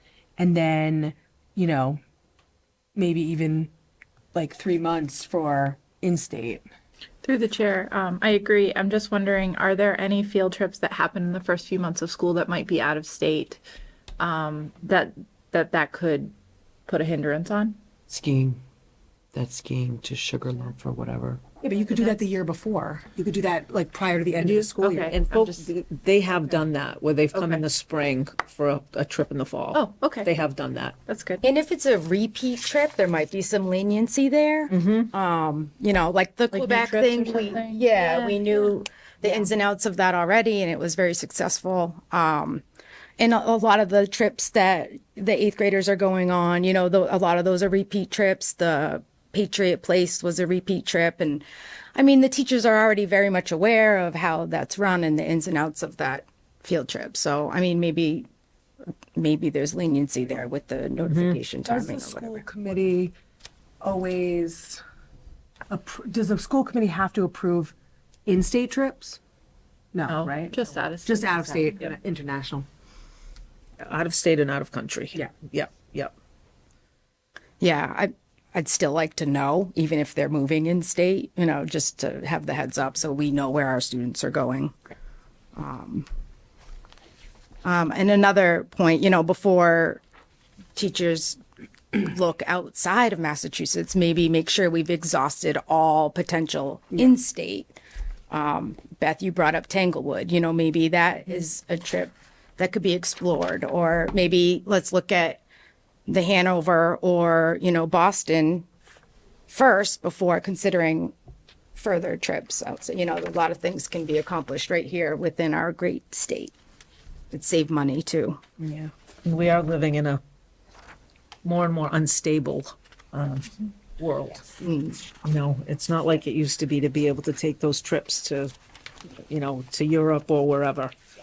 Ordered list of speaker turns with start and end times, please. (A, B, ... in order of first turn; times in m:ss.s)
0:00.4-0:02.0 A
0:03.0-0:03.7 A
0:04.3-0:06.7 A
0:07.2-0:13.6 B
0:14.2-0:16.3 B
0:16.9-0:17.8 B
0:18.1-0:18.6 C
0:19.3-0:21.4 C
0:21.6-0:25.1 A
0:24.4-0:31.0 D
0:25.0-0:25.6 B
0:29.7-0:30.3 B
0:31.1-0:31.4 B
0:31.4-0:42.6 E
0:34.7-0:35.1 D
0:36.5-0:38.5 B
0:43.2-0:51.4 E
0:52.0-0:58.3 E
0:59.2-1:02.4 E
1:01.0-1:01.4 D
1:01.6-1:03.1 A
1:03.8-1:04.8 A
1:05.7-1:07.7 A
1:08.3-1:09.2 A
1:09.9-1:12.7 A
1:10.1-1:11.9 B
1:13.8-1:16.1 D
1:17.6-1:24.7 E
1:25.6-1:26.1 E
1:27.6-1:30.0 E
1:30.8-1:31.4 E
1:31.9-1:45.4 E
1:46.1-1:48.6 E
1:49.5-1:51.1 E
1:51.8-1:56.5 E
1:57.3-1:58.4 E
1:58.6-2:00.2 D
2:01.4-2:04.4 D
2:04.6-2:05.0 E
2:05.1-2:08.5 D
2:09.2-2:11.0 D